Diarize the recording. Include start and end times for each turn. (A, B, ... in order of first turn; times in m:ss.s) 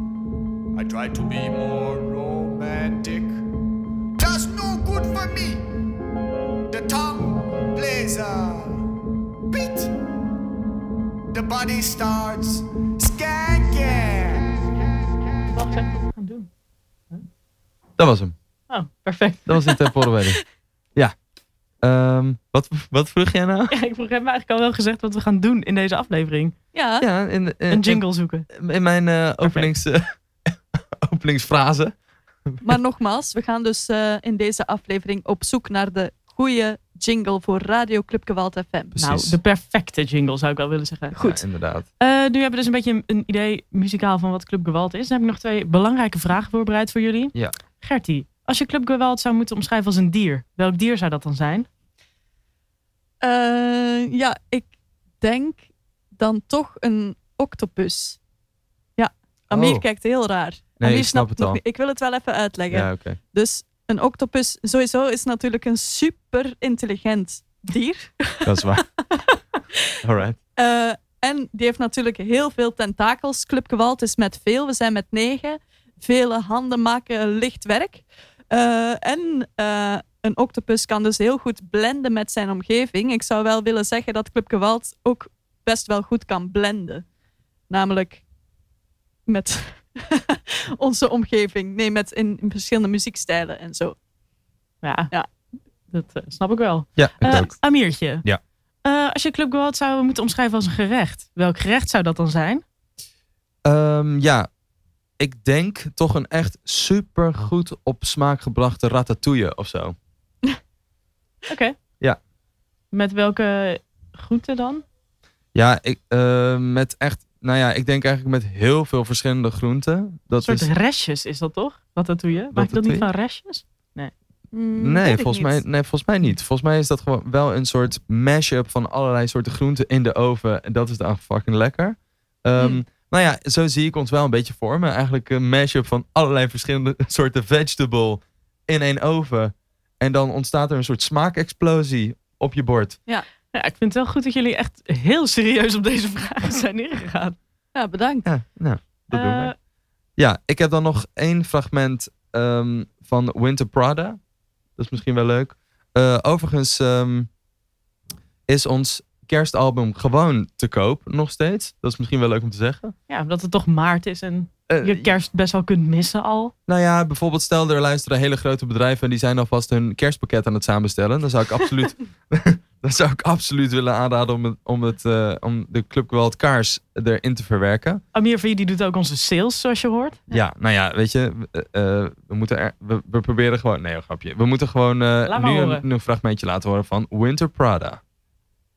0:00.7-0:03.4 A
0:04.2-0:05.6 A
0:06.7-0:08.9 A
0:09.5-0:09.9 A
0:11.3-0:14.7 A
0:15.5-0:16.5 B
0:18.0-0:18.4 C
0:18.7-0:19.7 B
0:19.5-0:20.4 C
0:21.8-0:23.7 C
0:23.7-0:26.6 B
0:26.7-0:27.0 D
0:27.0-0:32.0 C
0:27.7-0:28.5 B
0:29.4-0:29.7 B
0:32.6-0:38.9 D
0:39.0-0:39.4 C
0:39.0-0:41.4 B
0:41.2-0:41.9 C
0:42.0-0:51.7 B
0:53.2-0:54.7 D
0:55.2-0:58.2 D
0:59.0-1:08.5 D
0:59.5-0:59.8 C
1:00.8-1:01.6 C
1:02.7-1:03.2 C
1:08.4-1:08.8 C
1:10.0-1:10.4 C
1:10.6-1:27.0 D
1:27.7-1:28.2 D
1:29.3-1:34.0 D
1:34.8-1:35.1 B
1:35.9-1:38.2 B
1:37.0-1:37.6 C
1:38.8-1:42.6 B
1:43.6-1:44.5 C
1:45.2-1:50.0 C
1:51.5-1:51.8 B
1:52.9-1:54.8 B
1:55.6-2:00.7 C
2:00.4-2:04.1 B
2:02.5-2:03.1 C
2:04.5-2:05.6 D
2:04.8-2:23.0 C
2:23.5-2:27.4 B
2:27.8-2:28.2 D
2:28.3-2:29.5 C
2:29.1-2:29.6 B
2:30.2-2:34.2 C
2:34.8-2:37.3 C
2:38.5-2:42.9 C
2:43.1-2:46.5 B
2:44.7-2:45.1 C
2:46.7-2:58.0 C
2:58.1-3:00.2 B
3:00.3-3:08.0 C
3:05.3-3:05.8 B